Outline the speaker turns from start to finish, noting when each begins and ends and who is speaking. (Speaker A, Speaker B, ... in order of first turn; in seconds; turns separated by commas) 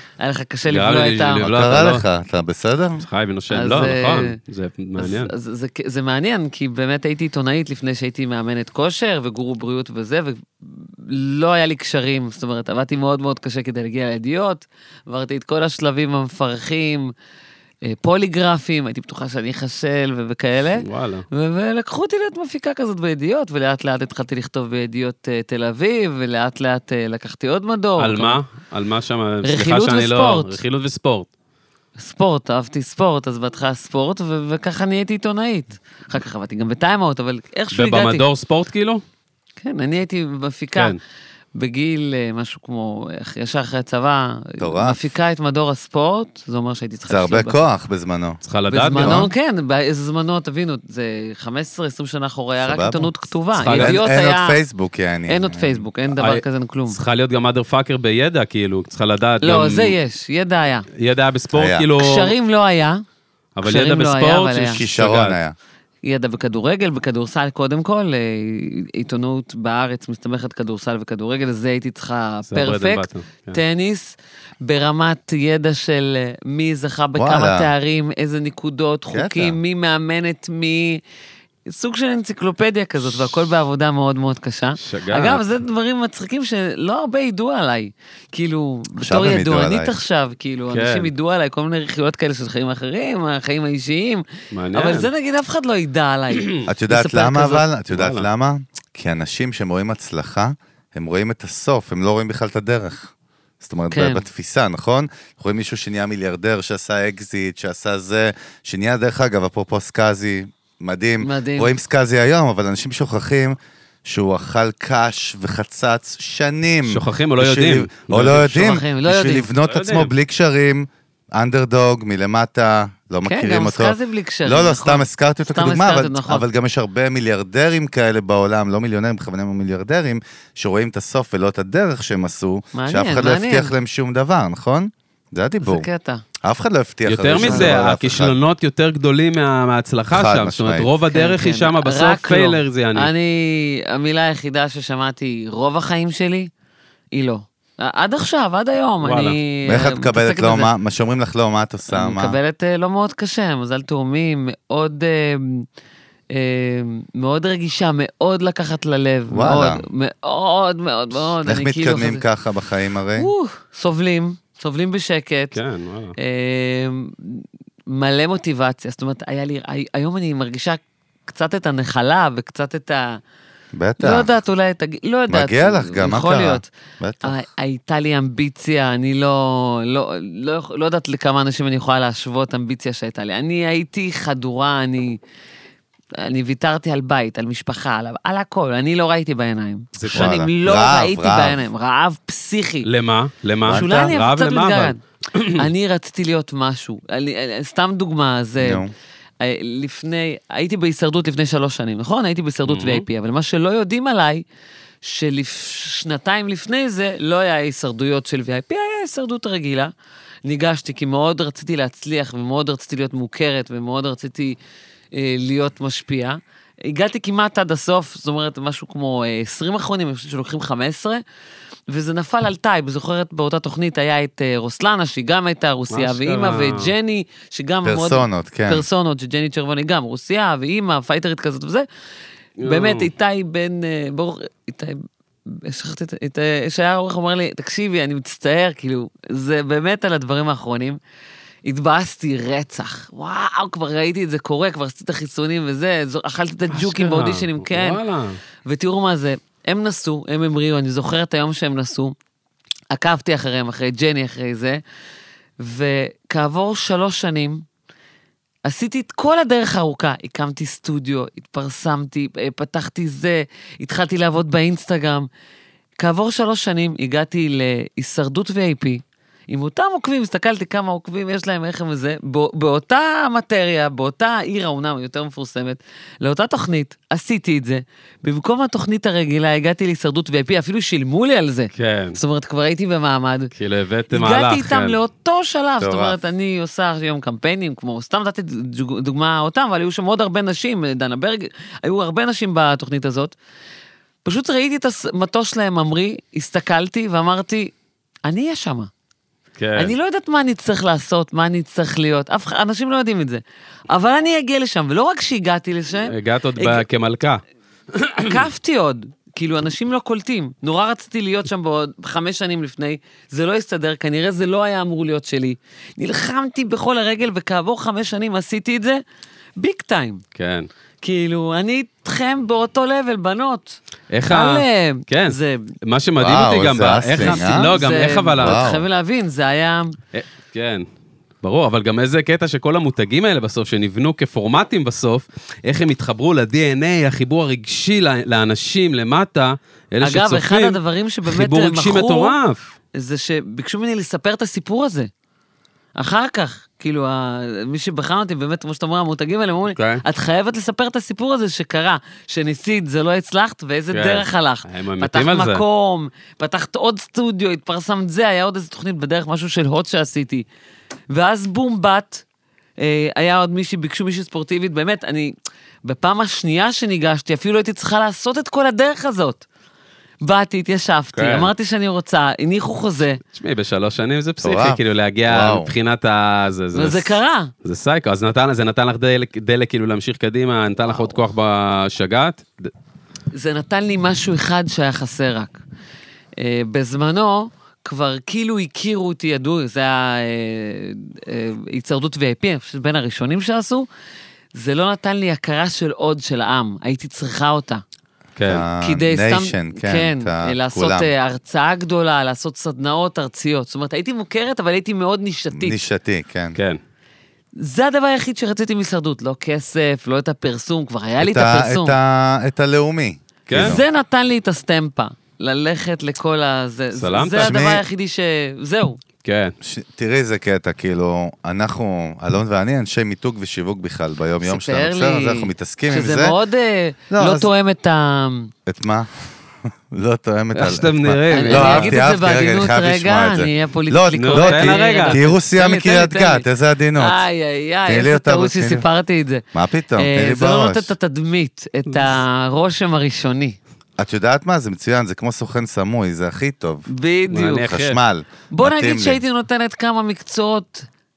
Speaker A: 0.2-1.4, Speaker B: 0.7-2.0, Speaker C: 1.4-3.0, Speaker B: 3.0-5.3, Speaker A: 3.5-4.4, Speaker A: 5.0-17.1, Speaker A: 17.8-28.4, Speaker B: 20.8-21.2, Speaker B: 28.0-31.3, Speaker A: 29.4-30.6, Speaker A: 32.0-38.2, Speaker B: 37.7-39.0, Speaker A: 39.6-41.0, Speaker A: 41.5-47.6, Speaker C: 44.6-45.0, Speaker C: 47.1-48.4, Speaker B: 48.4-49.3, Speaker A: 48.7-54.6, Speaker C: 48.9-49.3, Speaker C: 52.6-53.1, Speaker B: 53.6-54.0, Speaker C: 53.6-55.8, Speaker A: 55.3-57.0, Speaker B: 56.1-60.0, Speaker A: 59.4-60.9, Speaker B: 60.9-62.3, Speaker C: 61.5-61.9, Speaker A: 62.0-63.0, Speaker B: 63.5-65.4, Speaker A: 63.6-64.8, Speaker C: 64.7-65.5, Speaker A: 66.0-81.0, Speaker B: 72.5-73.6, Speaker C: 77.2-77.7, Speaker C: 79.1-79.6, Speaker A: 81.7-97.7, Speaker B: 84.8-85.4, Speaker C: 89.0-89.9, Speaker B: 90.7-91.1, Speaker B: 94.5-95.1, Speaker C: 96.7-135.9, Speaker B: 97.9-98.2, Speaker A: 103.9-104.2, Speaker A: 111.2-111.7, Speaker B: 116.8-118.5, Speaker A: 118.3-119.5, Speaker B: 119.6-120.1, Speaker A: 123.2-126.4, Speaker A: 132.7-133.7, Speaker A: 135.6-136.2, Speaker C: 136.4-138.3, Speaker B: 137.1-143.1, Speaker A: 137.4-137.8, Speaker C: 140.1-140.9, Speaker A: 141.1-146.5, Speaker A: 147.1-150.7, Speaker B: 149.0-149.4, Speaker C: 149.7-152.4, Speaker A: 151.9-155.7, Speaker A: 156.3-162.2, Speaker C: 159.3-159.8, Speaker C: 161.4-163.3, Speaker A: 163.2-165.6, Speaker B: 165.5-166.1, Speaker A: 166.2-173.2, Speaker C: 173.7-174.3, Speaker A: 174.0-176.7, Speaker C: 175.3-177.4, Speaker A: 177.2-185.2, Speaker A: 186.2-192.9, Speaker B: 189.9-190.3, Speaker C: 190.1-191.6, Speaker B: 192.8-195.6, Speaker C: 193.7-194.1, Speaker A: 193.7-195.0, Speaker A: 195.5-198.8, Speaker C: 198.6-198.9, Speaker A: 199.4-204.4, Speaker B: 202.7-203.0, Speaker A: 205.0-209.9, Speaker A: 210.4-214.6, Speaker A: 215.1-221.2, Speaker A: 221.9-231.8, Speaker B: 225.9-226.9, Speaker C: 227.8-228.8, Speaker B: 232.6-233.1, Speaker A: 232.6-241.0, Speaker A: 241.6-248.0, Speaker B: 246.7-248.4, Speaker A: 248.6-252.1, Speaker A: 252.9-254.8, Speaker A: 255.6-257.6, Speaker A: 258.6-265.3, Speaker A: 266.0-283.5, Speaker B: 281.7-282.2, Speaker B: 283.5-285.0, Speaker A: 284.1-293.3, Speaker C: 285.8-286.2, Speaker A: 294.2-297.7, Speaker A: 298.2-298.9, Speaker B: 299.6-299.9, Speaker A: 299.8-306.8, Speaker B: 306.1-307.4, Speaker B: 307.9-308.4, Speaker A: 308.2-319.0, Speaker A: 319.6-320.2, Speaker B: 320.3-320.7, Speaker A: 321.0-325.7, Speaker B: 324.1-328.7, Speaker C: 326.2-327.7, Speaker A: 327.2-330.0, Speaker C: 328.4-328.8, Speaker B: 330.1-330.9, Speaker B: 331.4-342.6, Speaker A: 340.0-342.3, Speaker A: 342.9-345.1, Speaker A: 346.0-360.4, Speaker B: 349.7-350.0, Speaker B: 353.9-355.6, Speaker A: 361.1-362.2, Speaker A: 362.8-369.4, Speaker A: 370.2-373.2, Speaker B: 371.1-371.5, Speaker B: 373.3-382.7, Speaker C: 374.4-375.7, Speaker A: 376.7-377.5, Speaker A: 383.3-385.6, Speaker A: 386.4-393.9, Speaker A: 394.5-397.8, Speaker B: 398.4-398.6, Speaker C: 398.4-401.1, Speaker A: 398.8-405.8, Speaker C: 405.5-406.6, Speaker A: 407.6-411.9, Speaker C: 411.2-413.8, Speaker B: 413.5-413.8, Speaker A: 413.5-419.0, Speaker B: 417.0-417.6, Speaker C: 417.4-417.8, Speaker B: 419.2-419.5, Speaker C: 419.6-426.4, Speaker A: 424.4-428.5, Speaker C: 427.1-427.5, Speaker C: 428.6-429.1, Speaker C: 429.7-437.2, Speaker B: 430.5-431.9, Speaker A: 431.3-436.4, Speaker B: 434.1-435.2, Speaker A: 437.0-443.6, Speaker C: 437.9-438.9, Speaker C: 439.5-440.9, Speaker C: 444.0-446.9, Speaker A: 446.9-447.7, Speaker B: 447.3-448.0, Speaker C: 447.6-449.2, Speaker A: 448.5-450.9